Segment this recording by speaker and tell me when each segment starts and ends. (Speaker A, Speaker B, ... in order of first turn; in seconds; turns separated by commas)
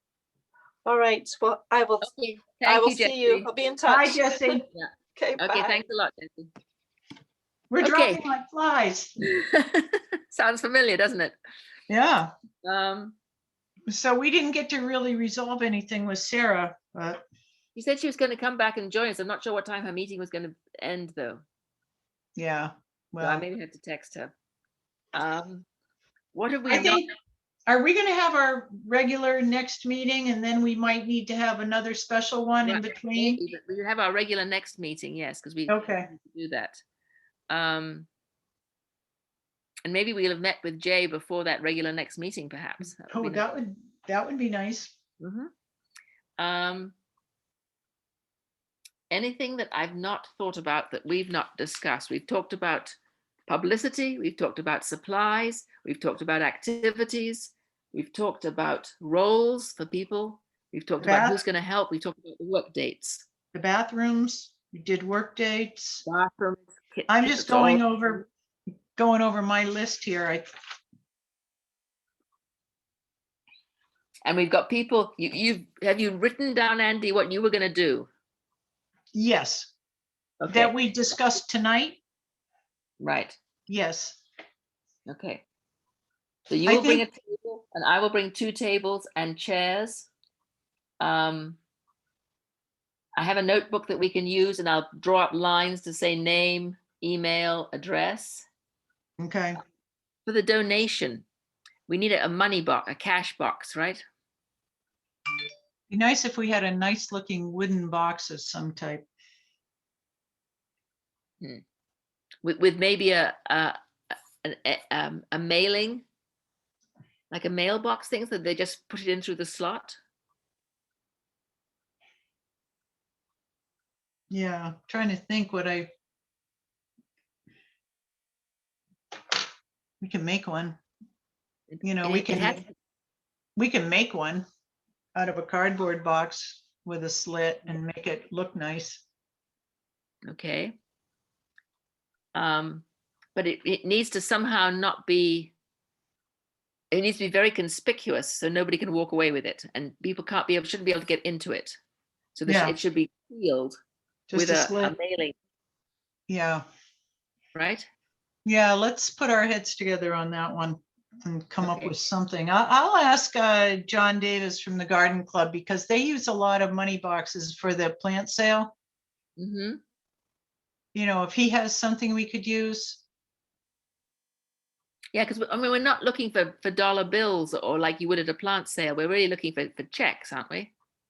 Speaker A: 0.8-2.1, Speaker B: 2.0-3.5, Speaker A: 2.6-4.6, Speaker C: 3.8-4.6, Speaker B: 4.7-6.5, Speaker A: 5.2-5.8, Speaker C: 7.7-9.1, Speaker B: 7.8-8.3, Speaker B: 9.3-11.3, Speaker C: 11.9-12.3, Speaker B: 12.6-13.2, Speaker C: 13.9-17.2, Speaker B: 17.7-21.4, Speaker C: 22.4-23.5, Speaker B: 23.2-24.3, Speaker B: 25.1-25.7, Speaker B: 26.3-27.0, Speaker C: 26.7-27.1, Speaker C: 27.7-33.4, Speaker B: 32.6-36.8, Speaker C: 35.7-36.1, Speaker B: 37.5-38.1, Speaker B: 39.9-43.5, Speaker C: 43.1-44.9, Speaker B: 45.2-45.5, Speaker B: 46.4-46.9, Speaker B: 49.1-63.2, Speaker C: 61.0-61.4, Speaker C: 63.5-66.0, Speaker B: 66.0-68.3, Speaker C: 67.1-68.2, Speaker C: 69.0-70.5, Speaker B: 74.2-78.1, Speaker C: 79.1-79.7, Speaker B: 80.4-80.8, Speaker C: 80.5-82.0, Speaker B: 83.0-83.4, Speaker C: 83.7-84.2, Speaker B: 85.1-85.4, Speaker B: 86.5-90.1, Speaker C: 86.7-87.0, Speaker B: 91.0-91.6, Speaker B: 93.2-98.5, Speaker C: 99.2-99.6, Speaker B: 100.2-101.2, Speaker B: 101.9-104.0, Speaker C: 105.9-109.0, Speaker B: 112.4-116.0, Speaker B: 117.3-120.0, Speaker C: 124.3-125.9, Speaker C: 130.0-130.8, Speaker B: 131.7-132.7, Speaker C: 131.8-132.6, Speaker C: 133.6-134.4, Speaker C: 135.1-139.0, Speaker B: 140.2-140.7, Speaker B: 142.3-145.5, Speaker B: 146.9-151.8, Speaker B: 152.3-153.8, Speaker C: 152.4-152.8, Speaker C: 154.3-154.9, Speaker B: 154.3-155.3, Speaker C: 156.3-156.6, Speaker B: 157.5-157.8, Speaker C: 158.4-168.7, Speaker B: 161.6-161.9, Speaker B: 169.4-169.8, Speaker C: 170.9-173.0, Speaker B: 175.1-180.7